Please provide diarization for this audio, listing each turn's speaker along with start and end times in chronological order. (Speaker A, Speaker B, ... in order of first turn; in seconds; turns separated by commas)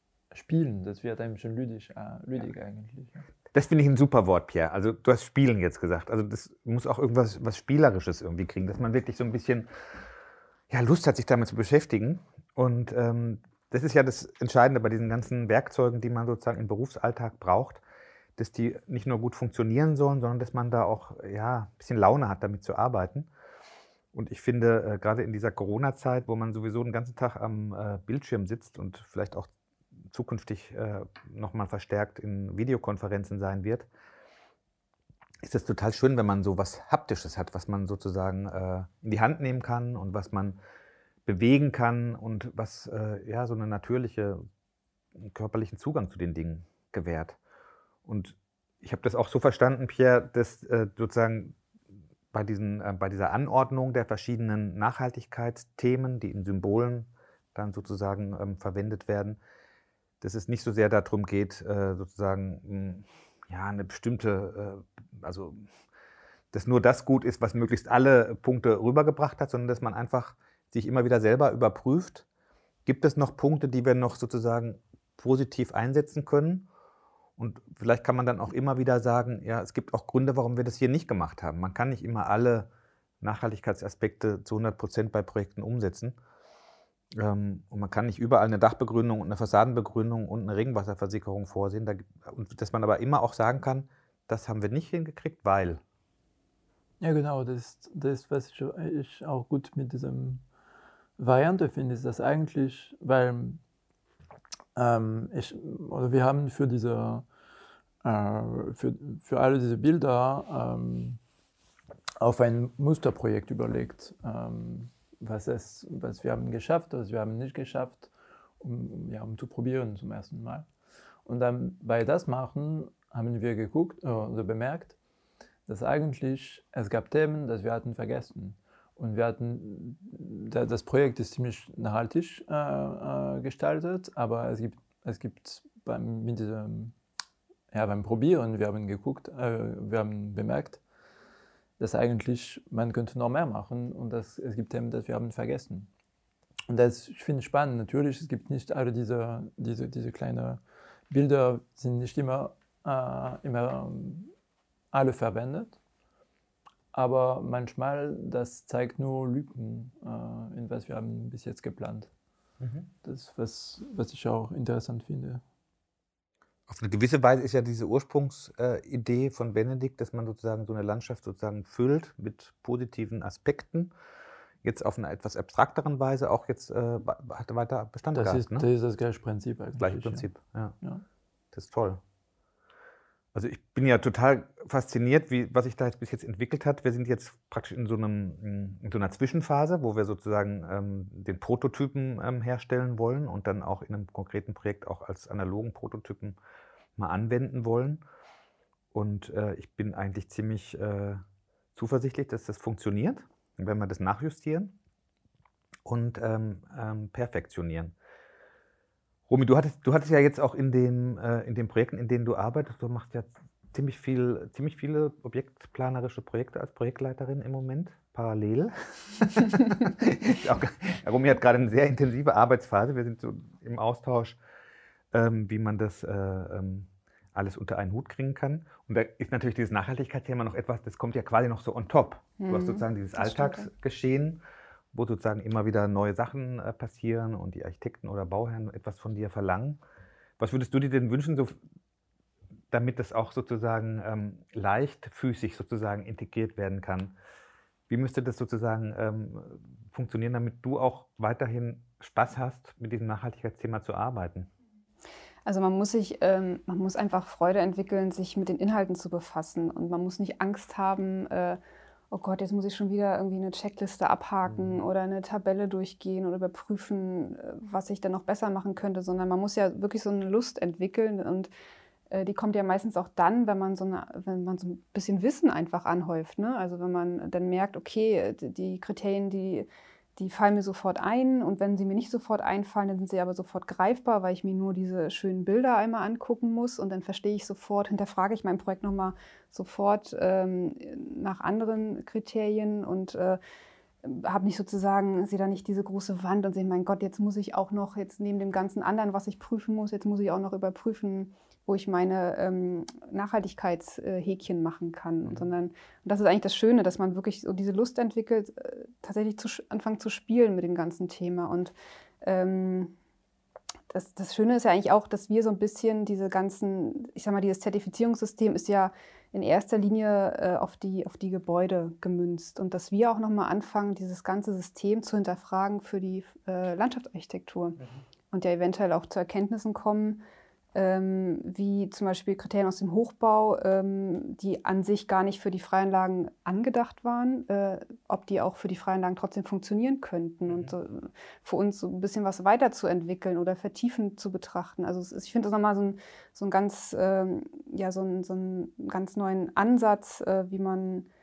Speaker A: 0.3-3.3, Speaker B: 3.5-9.7, Speaker B: 10.7-17.8, Speaker B: 18.4-23.3, Speaker B: 24.1-29.5, Speaker B: 30.1-33.9, Speaker B: 35.4-40.6, Speaker B: 41.3-44.5, Speaker B: 45.2-47.4, Speaker B: 48.1-51.6, Speaker B: 52.3-59.4, Speaker B: 60.2-65.6, Speaker B: 66.5-72.2, Speaker B: 72.9-76.7, Speaker B: 77.4-82.7, Speaker B: 83.2-86.2, Speaker B: 87.2-95.8, Speaker A: 97.0-100.4, Speaker A: 101.2-103.6, Speaker A: 104.8-107.3, Speaker A: 108.0-111.2, Speaker A: 112.2-120.7, Speaker A: 121.2-125.0, Speaker A: 125.7-136.9, Speaker A: 137.7-140.8, Speaker A: 141.8-145.9, Speaker A: 146.7-154.3, Speaker A: 154.9-155.8, Speaker A: 156.9-162.1, Speaker B: 162.6-162.9, Speaker A: 163.0-165.4, Speaker B: 166.7-173.9, Speaker B: 174.6-178.7, Speaker A: 178.1-180.3, Speaker B: 179.8-180.8, Speaker B: 181.5-182.0, Speaker B: 183.3-196.4, Speaker B: 197.0-198.0, Speaker B: 198.9-201.2, Speaker B: 201.8-204.8, Speaker B: 205.8-207.9, Speaker B: 209.3-224.4, Speaker B: 225.1-234.4, Speaker C: 232.4-233.7, Speaker B: 234.9-239.8, Speaker B: 240.4-241.6, Speaker B: 242.7-247.2, Speaker B: 247.9-254.5, Speaker C: 255.4-261.6, Speaker C: 262.1-271.5, Speaker B: 264.5-264.8, Speaker C: 272.1-293.4, Speaker C: 294.0-312.9, Speaker C: 313.9-327.8, Speaker C: 328.3-330.2, Speaker C: 330.7-351.1, Speaker B: 340.5-340.7